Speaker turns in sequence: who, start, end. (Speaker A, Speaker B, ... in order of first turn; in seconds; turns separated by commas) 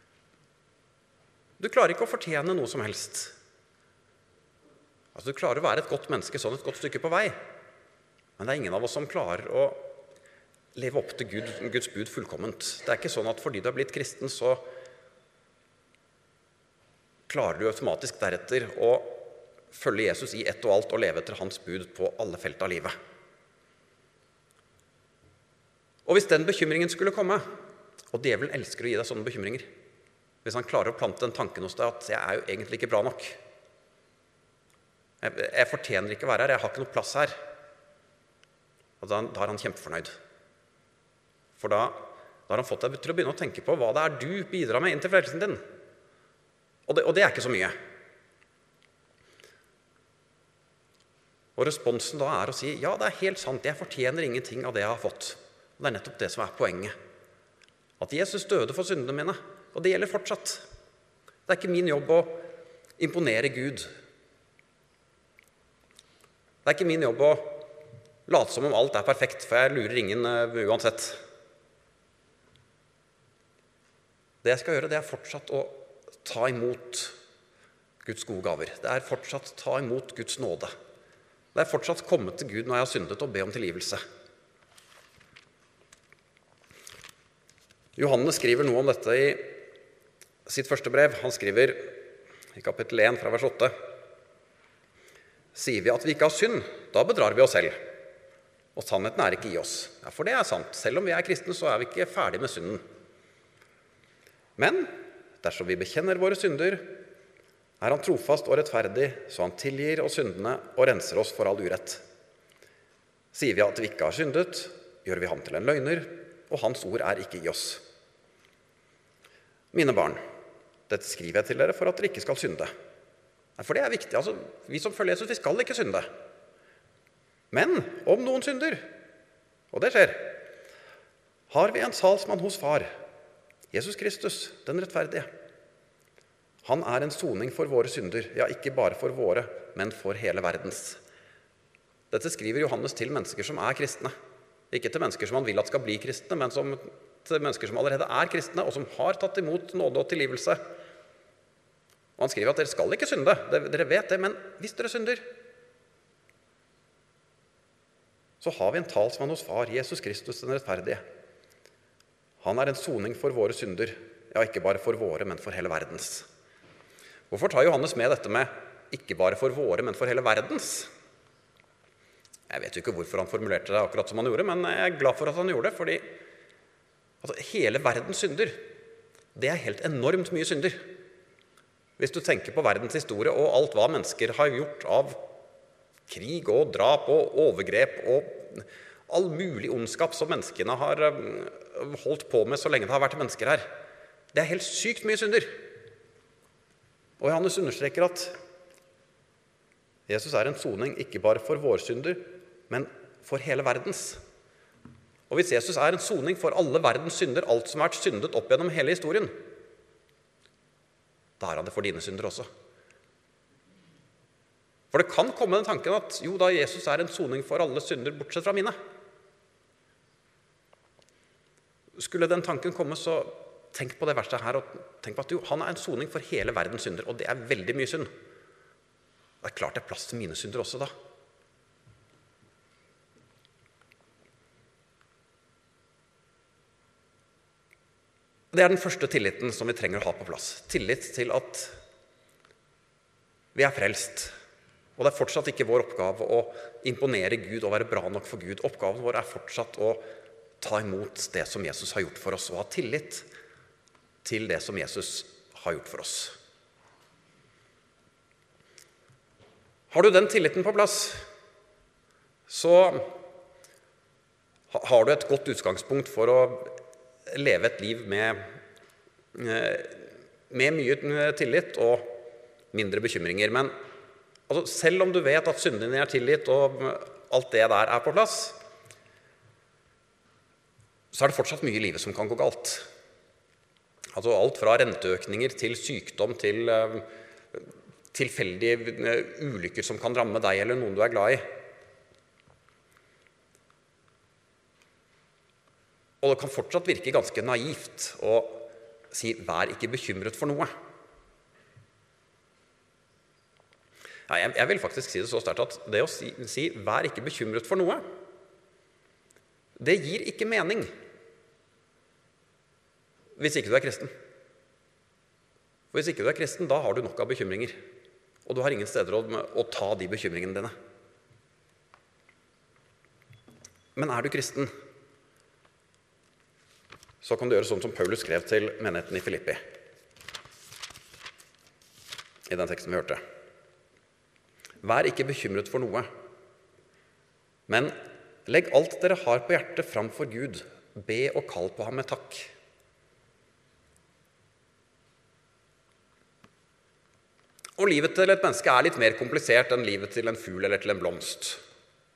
Speaker A: 1.6-3.3, Speaker A: 5.1-7.3, Speaker A: 8.4-9.9, Speaker A: 10.7-14.6, Speaker A: 17.3-22.9, Speaker A: 26.1-27.4, Speaker A: 28.1-29.7, Speaker A: 30.4-33.4, Speaker A: 35.2-37.4, Speaker A: 39.0-40.1, Speaker A: 41.6-45.6, Speaker A: 46.9-47.7, Speaker A: 51.6-56.9, Speaker A: 58.0-60.6, Speaker A: 61.5-62.4, Speaker A: 63.0-63.9, Speaker A: 66.6-67.6, Speaker A: 68.3-71.2, Speaker A: 74.4-77.1, Speaker A: 78.0-80.7, Speaker A: 81.5-84.0, Speaker A: 88.0-89.6, Speaker A: 90.5-92.0, Speaker A: 92.5-93.7, Speaker A: 95.5-97.8, Speaker A: 98.8-102.8, Speaker A: 104.6-107.0, Speaker A: 107.8-112.0, Speaker A: 113.3-117.8, Speaker A: 119.7-120.2, Speaker A: 120.9-122.7, Speaker A: 123.6-126.1, Speaker A: 127.5-128.9, Speaker A: 129.7-130.4, Speaker A: 131.5-132.9, Speaker A: 133.7-135.3, Speaker A: 136.6-141.0, Speaker A: 142.1-144.1, Speaker A: 144.7-150.6, Speaker A: 152.2-155.2, Speaker A: 158.4-161.0, Speaker A: 162.4-166.3, Speaker A: 167.3-170.9, Speaker A: 172.5-176.0, Speaker A: 177.2-178.6, Speaker A: 179.3-180.8, Speaker A: 182.0-185.2, Speaker A: 186.1-193.7, Speaker A: 194.3-195.5, Speaker A: 197.2-198.3, Speaker A: 200.1-204.2, Speaker A: 205.3-209.3, Speaker A: 211.4-212.5, Speaker A: 214.9-218.7, Speaker A: 222.0-228.1, Speaker A: 229.4-230.9, Speaker A: 238.5-241.7, Speaker A: 243.5-244.3, Speaker A: 245.0-250.0, Speaker A: 250.6-253.2, Speaker A: 254.2-256.3, Speaker A: 259.9-261.2, Speaker A: 262.5-263.2, Speaker A: 264.7-266.8, Speaker A: 267.3-268.4, Speaker A: 269.3-272.2, Speaker A: 272.7-273.7, Speaker A: 274.5-278.6, Speaker A: 281.1-282.8, Speaker A: 284.1-291.4, Speaker A: 296.2-300.7, Speaker A: 304.3-308.0, Speaker A: 309.8-310.9, Speaker A: 313.4-314.1, Speaker A: 315.9-317.8, Speaker A: 318.4-320.7, Speaker A: 323.9-324.7, Speaker A: 327.2-329.6, Speaker A: 332.5-333.2, Speaker A: 334.8-336.1, Speaker A: 337.7-337.9, Speaker A: 338.5-342.5, Speaker A: 347.8-351.6